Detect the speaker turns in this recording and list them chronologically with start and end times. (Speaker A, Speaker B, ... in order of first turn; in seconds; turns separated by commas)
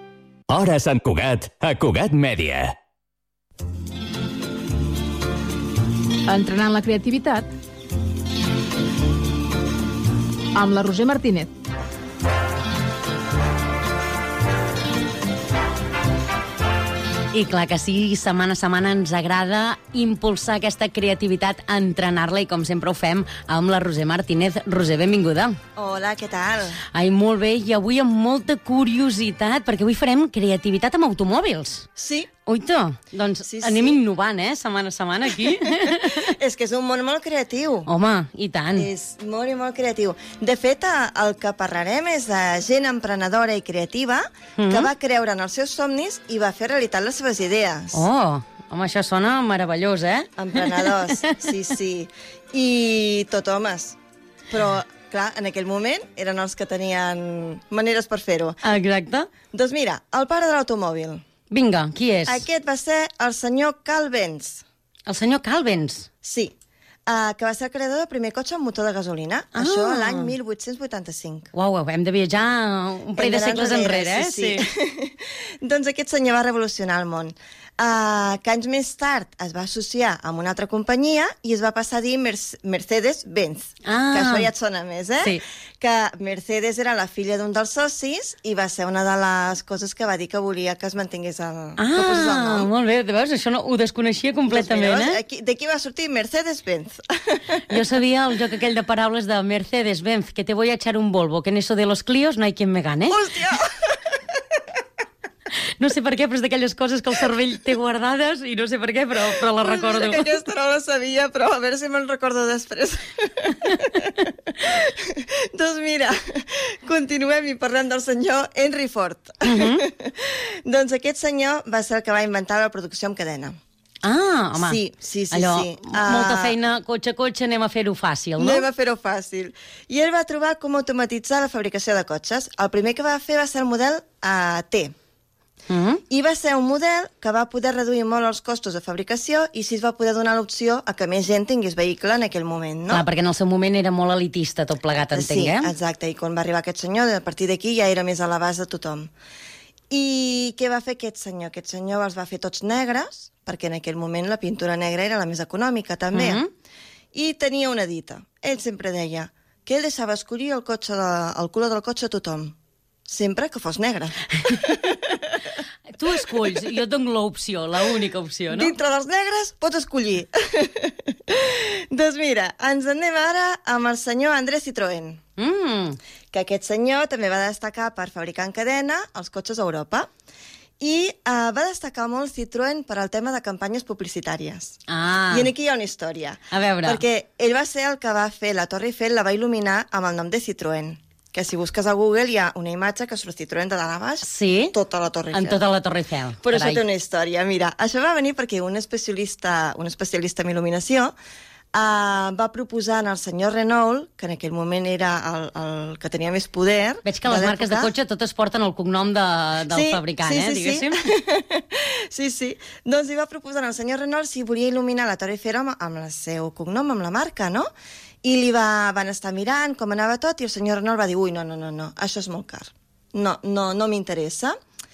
Speaker A: 0.5-2.7, Speaker B: 6.3-7.5, Speaker B: 10.6-11.5, Speaker C: 17.3-25.6, Speaker D: 25.8-26.8, Speaker C: 26.9-31.9, Speaker D: 32.0-32.3, Speaker C: 32.5-36.2, Speaker D: 33.4-34.0, Speaker D: 35.4-37.9, Speaker C: 37.9-38.9, Speaker D: 38.7-48.1, Speaker C: 44.6-44.9, Speaker C: 47.9-51.3, Speaker D: 50.4-54.0, Speaker D: 54.5-58.6, Speaker C: 58.6-59.3, Speaker D: 59.5-61.2, Speaker C: 61.5-62.4, Speaker D: 62.2-64.6, Speaker C: 65.1-66.1, Speaker D: 66.2-66.5, Speaker D: 67.1-71.5, Speaker C: 69.5-70.3, Speaker C: 71.5-74.6, Speaker D: 73.1-92.7, Speaker C: 83.8-84.5, Speaker C: 91.8-95.2, Speaker D: 94.5-97.8, Speaker C: 97.7-103.2, Speaker D: 103.1-103.7, Speaker C: 105.8-110.3, Speaker D: 109.3-123.6, Speaker C: 119.5-119.8, Speaker C: 124.0-124.8, Speaker D: 124.6-126.6, Speaker C: 125.3-128.6, Speaker D: 128.4-134.9, Speaker C: 135.7-136.0, Speaker D: 136.1-143.1, Speaker C: 142.9-145.7, Speaker D: 145.1-149.1, Speaker D: 149.9-156.4, Speaker C: 156.1-156.5, Speaker D: 157.1-162.5, Speaker D: 163.1-165.2, Speaker C: 166.0-168.7, Speaker D: 166.2-166.6, Speaker D: 168.5-175.2, Speaker C: 175.4-176.0, Speaker D: 176.3-180.1, Speaker D: 180.8-184.8, Speaker C: 184.9-185.5, Speaker D: 185.3-195.7, Speaker C: 186.5-187.0, Speaker C: 194.2-194.7, Speaker C: 195.3-196.8, Speaker D: 196.4-201.1, Speaker D: 201.7-207.9, Speaker C: 207.1-210.9, Speaker D: 209.7-217.7, Speaker D: 218.2-224.6